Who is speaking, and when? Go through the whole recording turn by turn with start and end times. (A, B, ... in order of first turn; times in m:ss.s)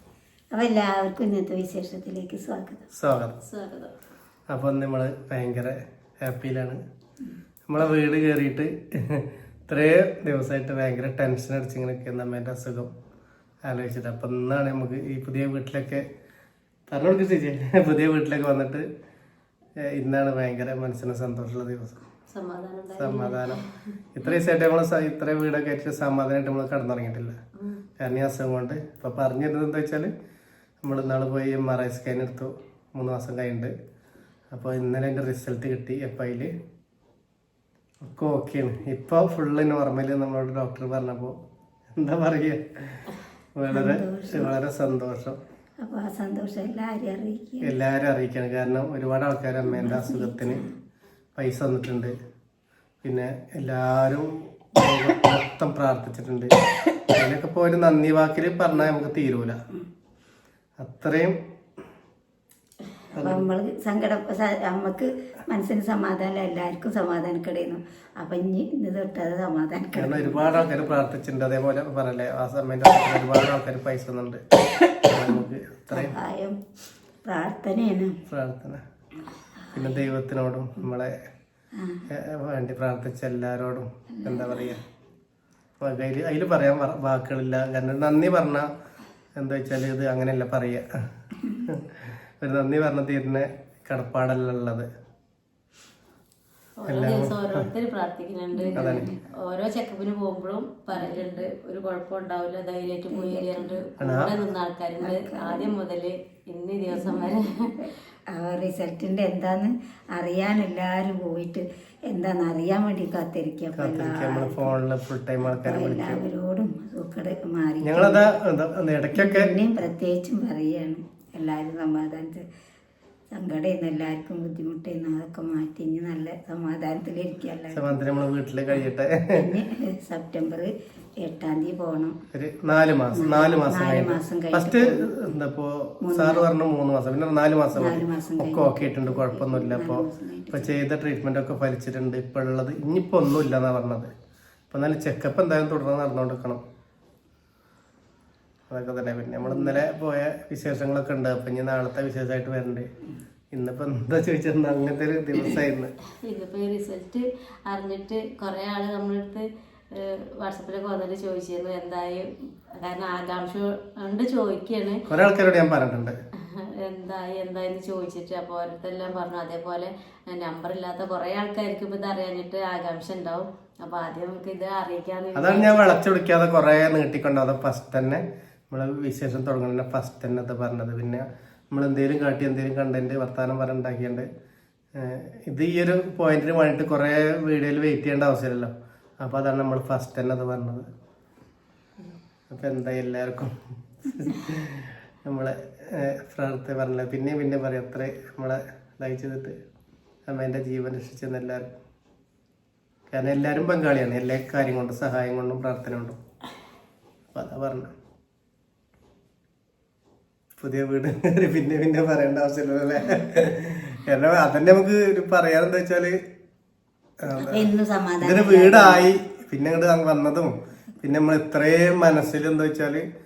0:00.5-0:02.8 A
0:02.9-0:03.4 B
0:03.4-0:03.9 C
0:04.5-0:06.8 B
0:07.7-0:12.9 B
0:13.6-0:16.1 B
0:16.9-0:18.9 B
0:19.8-0:22.0 B
0:22.3-0:23.7 C
0:23.0-0:23.6 B
0:24.2-0:27.4 B
0:28.0-0:30.1 B
0:30.8-0:33.7 B
0:34.5-0:36.5 B
0:38.0-0:41.4 B
0:41.9-0:45.4 B
0:43.7-0:44.5 A
0:45.8-0:47.7 A
0:47.6-0:50.6 B
0:49.6-0:50.7 A
0:51.4-0:52.1 B
0:53.0-0:56.5 B
0:57.1-0:59.6 B
1:00.8-1:01.4 B
1:03.1-1:03.5 B
1:03.2-1:11.0 A
1:10.0-1:14.4 B
1:15.0-1:16.2 B
1:15.9-1:16.6 A
1:17.2-1:18.2 A
1:18.3-1:18.8 B
1:19.7-1:21.2 B
1:21.8-1:22.0 A
1:22.1-1:24.8 B
1:24.2-1:24.7 A
1:25.8-1:28.7 B
1:29.4-1:31.0 B
1:31.6-1:34.9 B
1:36.8-1:47.8 C
1:36.9-1:37.7 B
1:38.6-1:39.2 A
1:38.8-1:39.1 B
1:40.9-1:41.3 A
1:43.1-1:43.9 A
1:44.0-1:44.3 B
1:45.0-1:45.7 A
1:46.9-1:54.8 A
1:53.8-1:56.2 B
1:55.4-1:58.3 A
1:57.8-1:59.6 B
1:59.2-2:02.4 A
2:03.3-2:08.0 A
2:07.7-2:09.4 B
2:09.3-2:12.2 A
2:12.3-2:24.1 B
2:13.1-2:15.3 A
2:16.0-2:16.5 A
2:17.8-2:20.8 A
2:24.7-2:26.6 B
2:28.7-2:32.9 B
2:29.4-2:29.8 A
2:33.5-2:35.9 B
2:36.2-2:45.0 C
2:45.1-2:46.2 B
2:46.4-2:56.0 C
2:55.3-3:04.3 B
3:05.0-3:10.9 B
3:12.5-3:19.6 B
3:20.3-3:21.7 B
3:23.1-3:26.2 B
3:27.3-3:27.9 B
3:30.6-3:36.2 B
3:37.2-3:37.7 B
3:37.3-3:39.1 A
3:38.2-3:43.0 B